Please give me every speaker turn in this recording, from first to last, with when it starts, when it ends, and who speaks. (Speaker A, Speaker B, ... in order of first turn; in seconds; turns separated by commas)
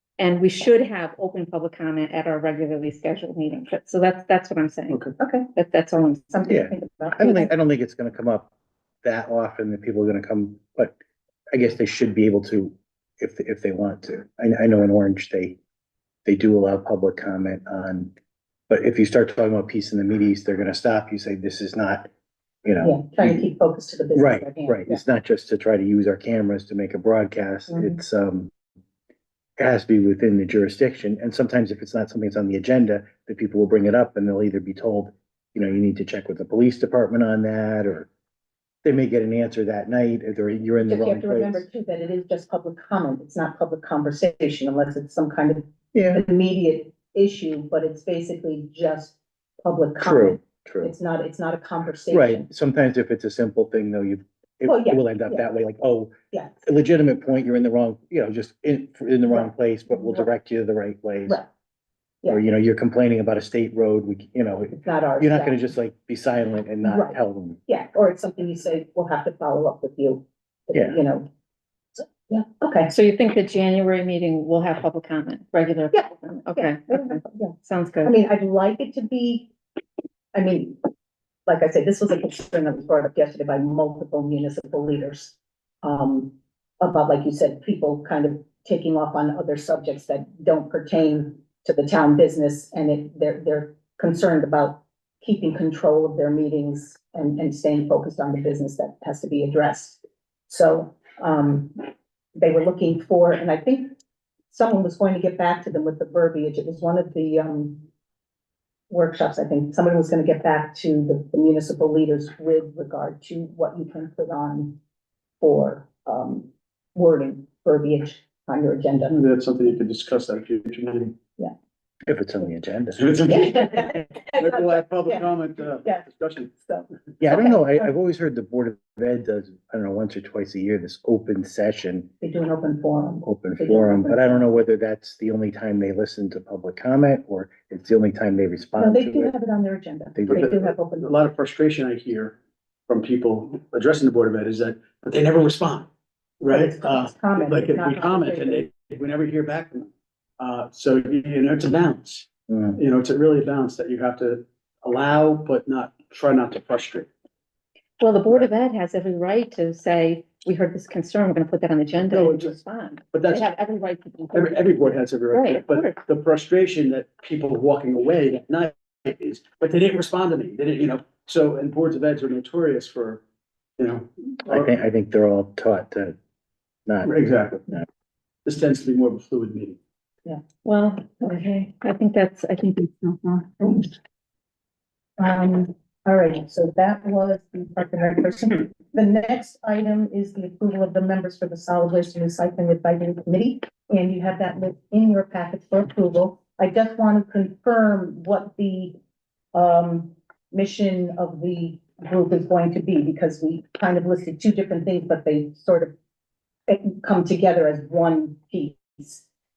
Speaker A: 0.2-5.0, Speaker B: 5.2-5.5, Speaker A: 5.5-6.3, Speaker B: 6.3-7.5, Speaker C: 6.5-8.5, Speaker C: 9.0-11.0, Speaker C: 11.5-15.6, Speaker C: 16.2-18.1, Speaker C: 18.7-22.1, Speaker C: 22.6-23.5, Speaker B: 22.8-25.0, Speaker C: 24.1-28.5, Speaker B: 27.7-28.0, Speaker C: 29.6-38.1, Speaker C: 38.8-41.6, Speaker B: 40.9-52.5, Speaker C: 45.9-46.2, Speaker C: 50.0-50.9, Speaker C: 52.1-61.4, Speaker B: 54.6-55.4, Speaker B: 56.3-56.6, Speaker B: 59.3-60.3, Speaker C: 62.3-67.6, Speaker B: 64.7-65.6, Speaker B: 66.8-71.3, Speaker B: 72.0-72.9, Speaker A: 72.9-78.1, Speaker B: 75.9-79.5, Speaker B: 80.3-80.8, Speaker B: 81.5-103.9, Speaker B: 104.5-107.8, Speaker B: 108.9-114.8, Speaker B: 115.4-119.2, Speaker D: 119.1-121.1, Speaker C: 122.1-123.0, Speaker D: 122.9-126.5, Speaker B: 123.3-125.3, Speaker B: 126.6-127.9, Speaker C: 127.2-132.1, Speaker B: 132.2-134.4, Speaker C: 133.2-139.3, Speaker B: 138.8-141.1, Speaker C: 140.2-140.5, Speaker D: 140.3-142.4, Speaker D: 142.9-145.9, Speaker D: 146.4-157.1, Speaker B: 146.5-148.7, Speaker A: 158.0-166.0, Speaker D: 162.0-162.6, Speaker D: 163.1-163.4, Speaker D: 164.3-173.2, Speaker D: 173.8-174.7, Speaker C: 174.5-176.2, Speaker C: 176.8-177.1, Speaker D: 177.0-177.6, Speaker D: 178.4-179.8, Speaker A: 180.6-183.9, Speaker B: 185.2-198.9, Speaker B: 199.5-205.9, Speaker B: 206.7-209.2